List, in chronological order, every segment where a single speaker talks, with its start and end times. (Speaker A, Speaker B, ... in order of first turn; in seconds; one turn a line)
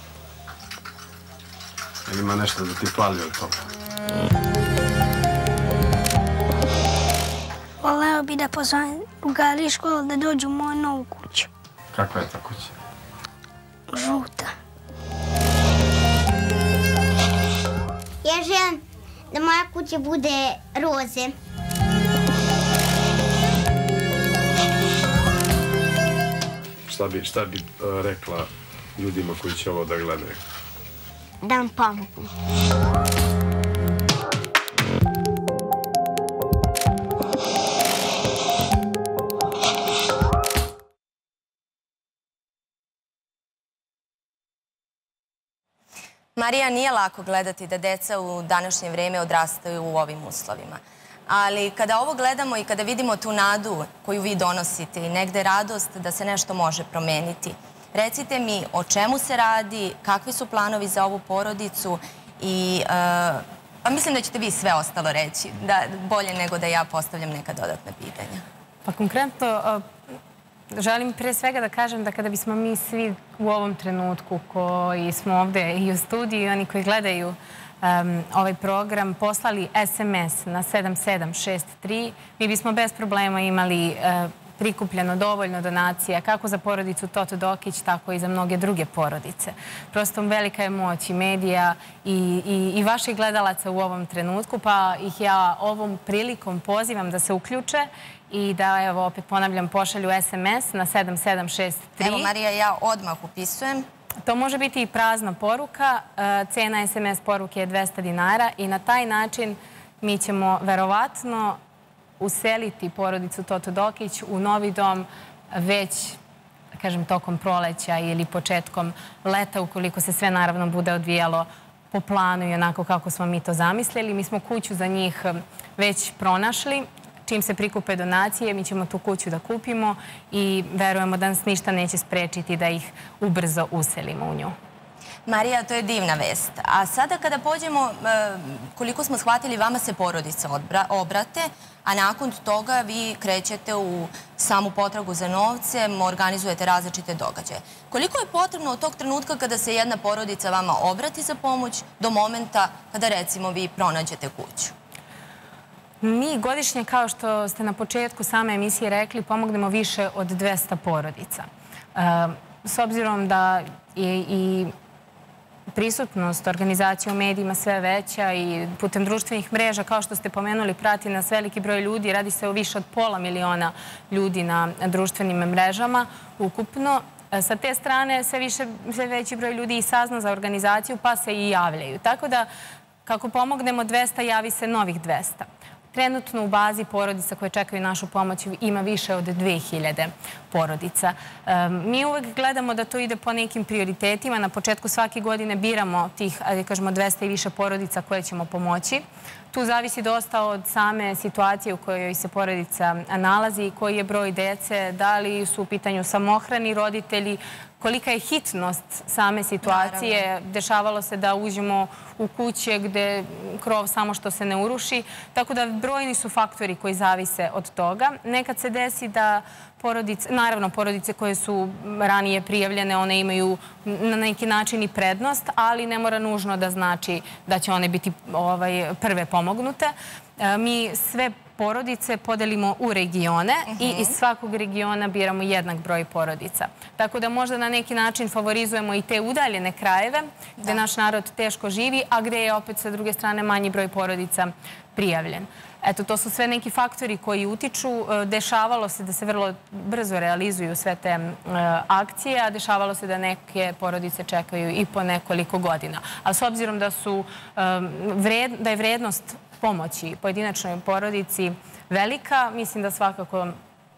Speaker A: 2.1-3.7
Speaker B: 7.8-11.5
Speaker A: 11.9-12.8
Speaker B: 13.9-14.6
Speaker C: 18.2-21.4
Speaker A: 26.9-30.4
Speaker C: 31.4-32.3
Speaker D: 46.4-68.4
Speaker E: 68.8-69.8
Speaker E: 70.7-102.3
Speaker D: 102.0-103.9
Speaker E: 104.2-111.6
Speaker E: 112.2-116.2
Speaker E: 116.8-134.5
Speaker D: 135.3-154.7
Speaker E: 156.0-164.7
Speaker E: 165.7-182.5
Speaker E: 183.1-263.6
Speaker D: 209.6-210.2
Speaker D: 233.7-234.2